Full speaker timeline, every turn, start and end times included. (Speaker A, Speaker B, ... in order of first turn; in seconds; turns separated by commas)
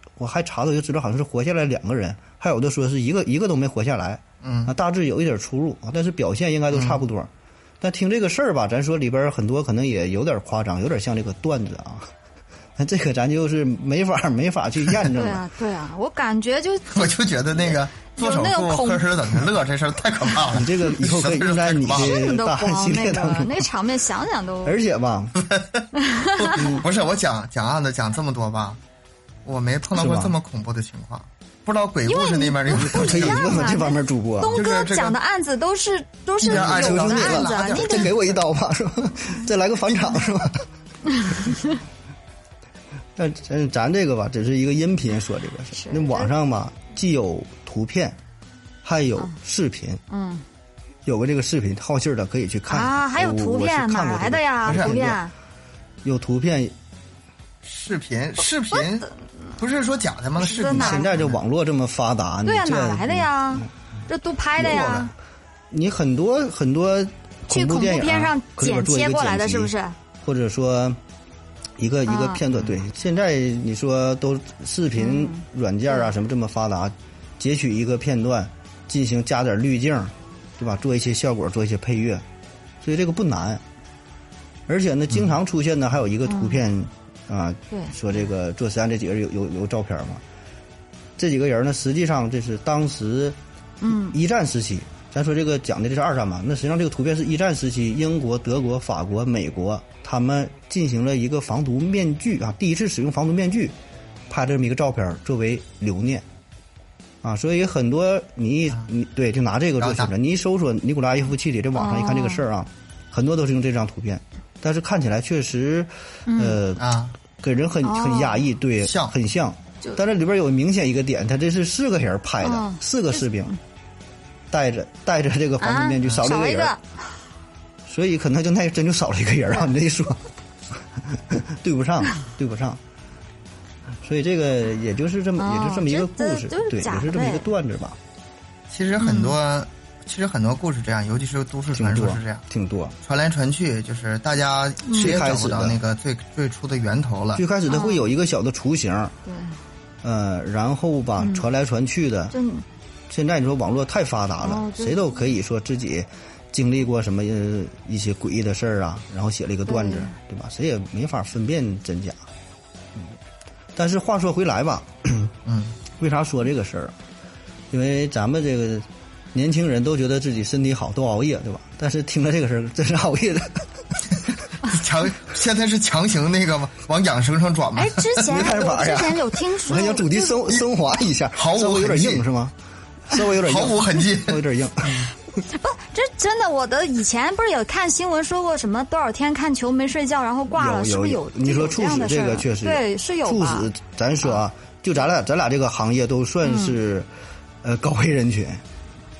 Speaker A: 0.2-7.3, Speaker B: 4.4-4.7, Speaker B: 6.7-7.0, Speaker A: 7.8-12.1, Speaker A: 12.8-15.4, Speaker C: 15.1-19.1, Speaker B: 16.9-22.2, Speaker A: 20.5-23.7, Speaker C: 21.9-24.8, Speaker A: 24.6-25.4, Speaker B: 25.4-25.8, Speaker C: 25.9-26.7, Speaker B: 26.4-28.8, Speaker A: 26.6-26.8, Speaker B: 29.4-33.6, Speaker A: 29.9-30.3, Speaker C: 32.0-38.1, Speaker A: 32.7-34.6, Speaker B: 34.5-35.2, Speaker B: 36.4-38.4, Speaker A: 36.4-40.6, Speaker C: 41.1-41.7, Speaker A: 43.1-48.2, Speaker C: 45.7-46.3, Speaker A: 48.8-50.0, Speaker C: 50.1-50.4, Speaker A: 51.0-55.2, Speaker C: 52.7-55.3, Speaker B: 54.7-54.9, Speaker A: 56.0-56.7, Speaker B: 57.6-59.1, Speaker C: 58.7-59.1, Speaker B: 59.6-61.4, Speaker C: 60.4-61.2, Speaker A: 60.7-63.7, Speaker C: 62.5-65.1, Speaker A: 64.6-65.1, Speaker A: 65.7-69.7, Speaker C: 67.5-69.9, Speaker A: 70.2-71.0, Speaker A: 71.8-82.2, Speaker C: 72.1-72.4, Speaker C: 75.0-76.1, Speaker A: 82.8-83.6, Speaker A: 84.7-90.2, Speaker C: 86.2-86.6, Speaker A: 91.2-93.4, Speaker C: 93.8-94.2, Speaker A: 93.9-103.7, Speaker A: 104.3-106.2, Speaker A: 107.2-116.9, Speaker B: 109.8-110.1, Speaker C: 111.7-112.4, Speaker C: 116.3-116.6, Speaker B: 116.8-117.1, Speaker A: 117.4-123.5, Speaker C: 117.8-118.5, Speaker B: 118.8-119.1, Speaker C: 122.4-123.2, Speaker A: 124.5-126.7, Speaker C: 125.6-127.1, Speaker A: 127.9-130.2, Speaker A: 131.0-132.8, Speaker A: 134.0-138.0, Speaker C: 135.4-137.5, Speaker B: 138.7-142.4, Speaker C: 139.0-139.3, Speaker A: 141.7-142.9, Speaker B: 143.0-147.4, Speaker C: 144.8-145.2, Speaker A: 144.9-145.8, Speaker A: 147.3-149.1, Speaker C: 147.7-148.1, Speaker C: 149.2-149.5, Speaker A: 150.0-152.3, Speaker C: 151.2-151.4, Speaker C: 152.3-152.6, Speaker A: 153.1-162.2, Speaker C: 154.4-155.2, Speaker C: 159.7-160.1, Speaker A: 163.8-165.3, Speaker B: 165.4-165.8, Speaker A: 166.0-166.9, Speaker A: 167.7-173.7, Speaker B: 174.6-178.3, Speaker C: 177.7-180.5, Speaker A: 178.2-182.5, Speaker B: 181.3-182.2, Speaker A: 183.1-185.1, Speaker B: 183.3-185.1, Speaker C: 185.4-193.7, Speaker A: 190.5-197.1, Speaker C: 196.4-196.8, Speaker A: 197.6-198.6